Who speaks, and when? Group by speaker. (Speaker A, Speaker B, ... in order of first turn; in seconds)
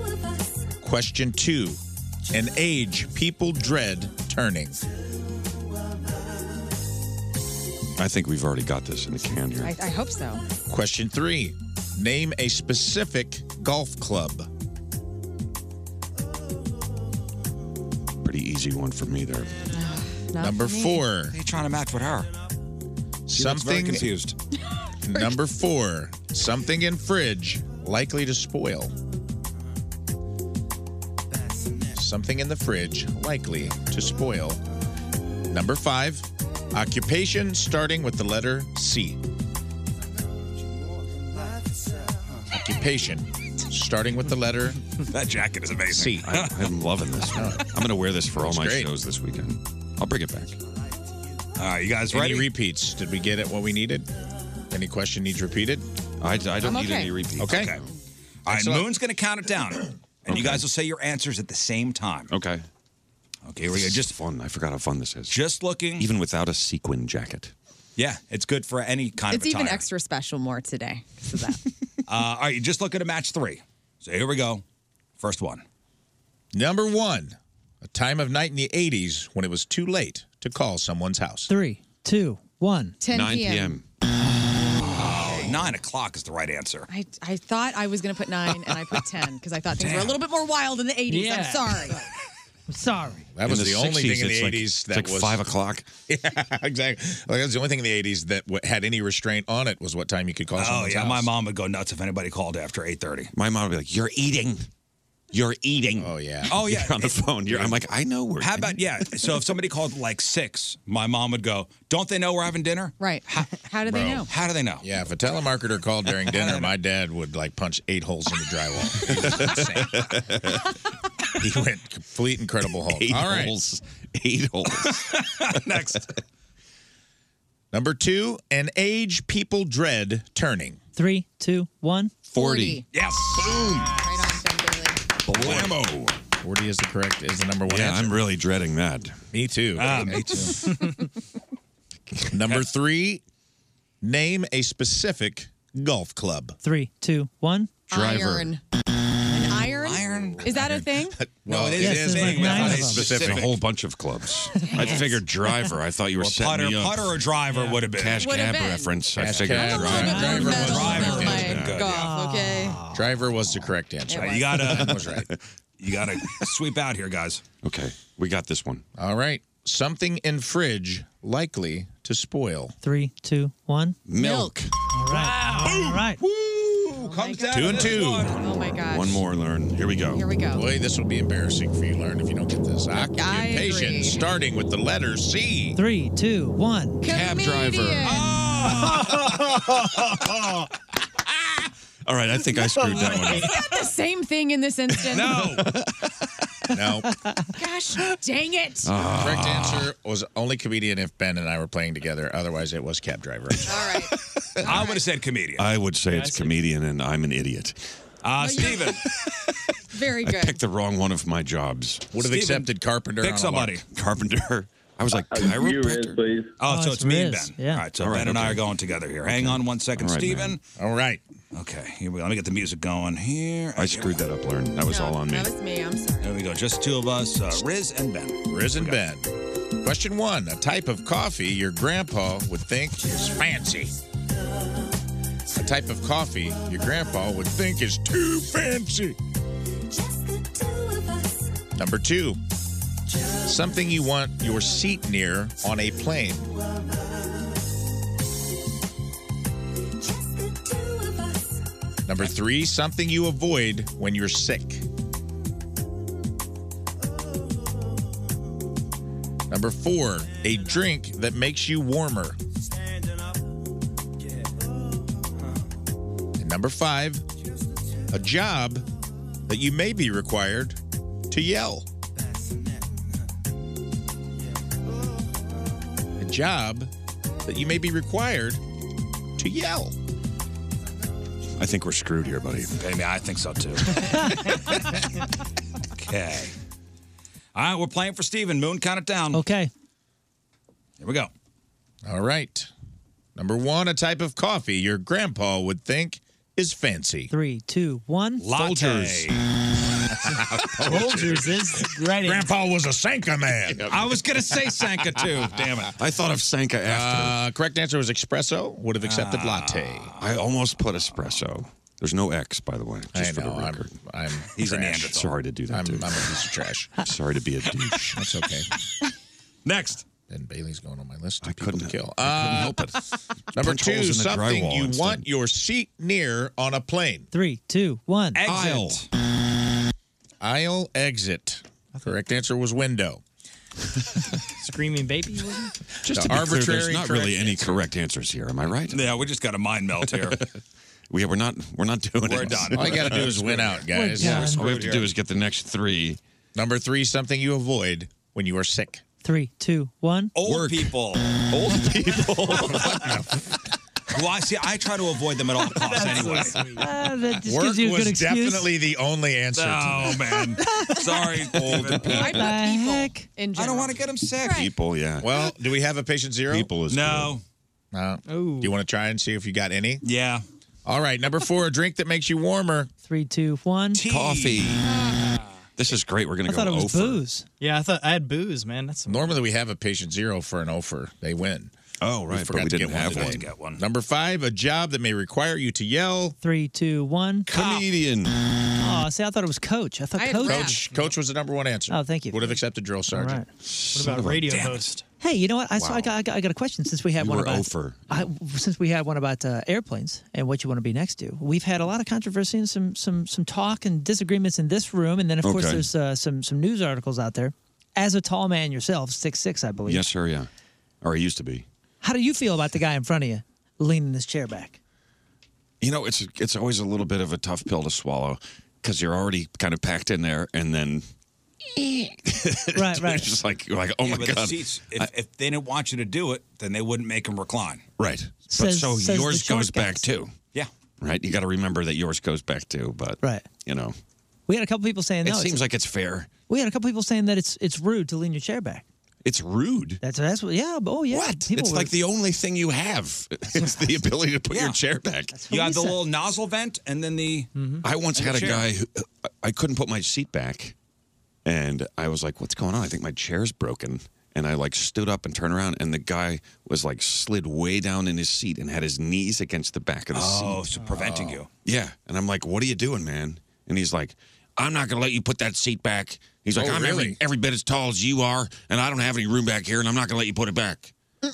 Speaker A: 0.8-4.8, 10.7-14.5, 20.4-21.4, 23.3-24.1, 25.0-28.9, 31.9-34.6, 35.5-39.2, 42.5-44.8, 45.9-46.4, 47.3-47.7, 48.3-48.9, 52.1-54.1, 54.7-55.9, 57.4-57.8, 58.5-58.9, 76.5-81.5, 93.3-95.4, 96.1-101.3, 106.0-106.6, 114.8-120.2, 121.3-123.5, 127.7-130.8, 136.4-138.3, 139.3-140.8, 142.2-143.2, 144.0-146.6, 151.1-153.5, 159.2-161.7, 162.9-165.3, 169.0-172.7, 177.5-178.3, 180.5-185.8, 196.7-197.1, 199.1-204.0, 212.1-213.8, 220.8-221.2, 228.5-233.9, 235.5-239.2, 241.7-242.4, 243.4-246.5, 252.1-254.8, 259.5-262.4, 266.4-267.2, 268.1-268.9, 269.5-270.8, 271.3-271.9, 276.2-276.9, 277.4-278.6, 279.4-279.9, 292.0-292.7, 293.4-297.3, 300.2-304.0, 306.8-310.1, 313.1-315.2, 315.7-317.1, 318.1-318.7, 320.3-322.9, 323.5-327.3, 330.4-333.2, 336.1-337.8, 342.6-344.6, 346.5-349.0, 352.8-353.2, 357.4-360.6, 361.5-362.1, 365.2-367.4, 367.9-370.0, 370.8-372.9, 379.1-381.7, 382.3-386.4, 390.4-393.4, 460.9-461.4, 466.5-467.2
Speaker B: 8.0-9.7, 18.2-19.7, 46.2-50.5, 56.2-57.9, 60.3-60.6, 62.3-62.6, 63.7-65.4, 66.0-67.5, 83.1-83.8, 93.4-95.9, 103.3-104.7, 105.3-109.3, 119.0-120.7, 122.8-125.2, 132.3-132.8, 133.3-133.9, 135.2-136.2, 137.7-139.2, 147.9-148.5, 152.6-157.2, 157.9-161.9, 164.7-165.4, 167.6-168.8, 174.1-174.7, 178.9-180.2, 187.0-190.7, 191.5-193.7, 194.9-196.1, 198.8-199.9, 205.6-207.8, 209.2-209.5, 210.2-212.1, 213.8-216.3, 218.0-218.6, 219.3-220.6, 223.8-225.5, 281.6-282.8, 298.5-299.4, 303.7-304.0, 305.9-307.4, 310.2-313.9, 315.1-316.4, 317.0-318.2, 321.4-325.2, 328.4-329.0, 336.0-339.2, 340.1-340.4, 341.1-346.2, 350.4-353.2, 361.6-362.4, 364.5-365.5, 374.1-374.9, 375.8-377.2, 382.0-383.4, 387.5-388.4, 393.6-394.9, 395.8-396.1, 397.2-398.2, 405.4-405.9, 409.9-410.5, 411.0-411.6, 415.8-421.1, 421.6-425.1, 428.0-430.3, 431.0-433.9, 435.2-436.3, 439.2-440.0, 441.1-445.4, 447.8-450.7, 451.4-460.7, 461.6-470.9
Speaker C: 9.6-10.4, 19.7-21.1, 56.6-57.1, 69.3-71.6, 83.0-83.8, 86.9-92.0, 113.0-114.3, 132.3-132.9, 133.8-135.0, 147.9-148.6, 149.3-151.2, 154.5-155.2, 158.1-162.9, 164.1-164.6, 174.2-174.5, 176.9-179.2, 180.0-180.6, 182.9-184.2, 187.0-188.4, 192.9-195.5, 197.5-198.9, 203.6-205.0, 208.4-209.0, 209.9-210.6, 224.8-226.4, 362.0-364.7, 390.1-390.8
Speaker D: 21.3-22.3, 23.3-24.3, 45.1-46.6, 51.6-52.5, 57.4-57.8, 58.5-62.3, 63.5-64.1, 65.3-66.1, 68.0-69.8, 72.1-74.6, 75.2-75.6, 84.8-86.9, 89.8-90.2, 100.5-103.3, 106.5-107.7, 108.4-114.8, 116.2-116.7, 124.8-126.2, 132.9-133.8, 135.3-135.8, 139.8-140.9, 149.8-150.7, 151.4-153.6, 156.2-158.2, 160.3-162.1, 164.1-165.1, 165.8-167.4, 175.1-178.7, 188.0-189.3, 195.1-195.7, 204.6-205.7, 208.2-209.0, 212.2-213.8, 216.6-220.6, 221.5-224.2, 226.2-229.0, 282.8-284.6, 285.9-286.5, 287.5-289.4, 291.0-291.3, 298.4-299.4, 301.0-301.4, 303.9-305.9, 309.0-310.4, 314.6-315.3, 319.6-320.0, 328.3-329.1, 338.9-340.4, 342.2-345.1, 350.4-351.9, 354.1-356.7, 359.5-362.4, 363.6-364.7, 366.9-367.4, 370.0-370.4, 373.9-374.8, 382.9-383.8, 387.5-387.9, 394.4-394.9, 424.0-427.8, 444.5-444.8, 445.5-447.5, 448.1-448.7, 460.1-461.5
Speaker E: 81.5-83.0, 92.7-93.3, 130.9-132.2, 146.6-147.7, 151.8-153.0, 160.3-161.2, 161.9-163.0, 172.8-174.0, 174.9-176.2, 185.8-187.0, 216.7-217.8, 289.3-289.7, 297.3-298.5, 327.3-328.4, 343.9-344.6, 349.2-350.3, 356.7-358.7, 360.6-361.1, 362.2-363.3, 373.1-374.0, 376.5-377.5, 386.4-387.5, 388.8-390.8, 391.9-392.6, 393.1-393.5, 395.2-410.1, 412.0-414.8, 422.8-423.3, 428.5-430.1, 434.5-435.6, 436.5-438.8, 440.0-441.9, 445.3-446.0
Speaker F: 91.1-91.7, 206.1-206.6, 300.9-302.5, 334.6-335.7, 355.7-357.0, 368.3-368.8, 377.6-379.4, 393.9-395.0, 447.6-447.8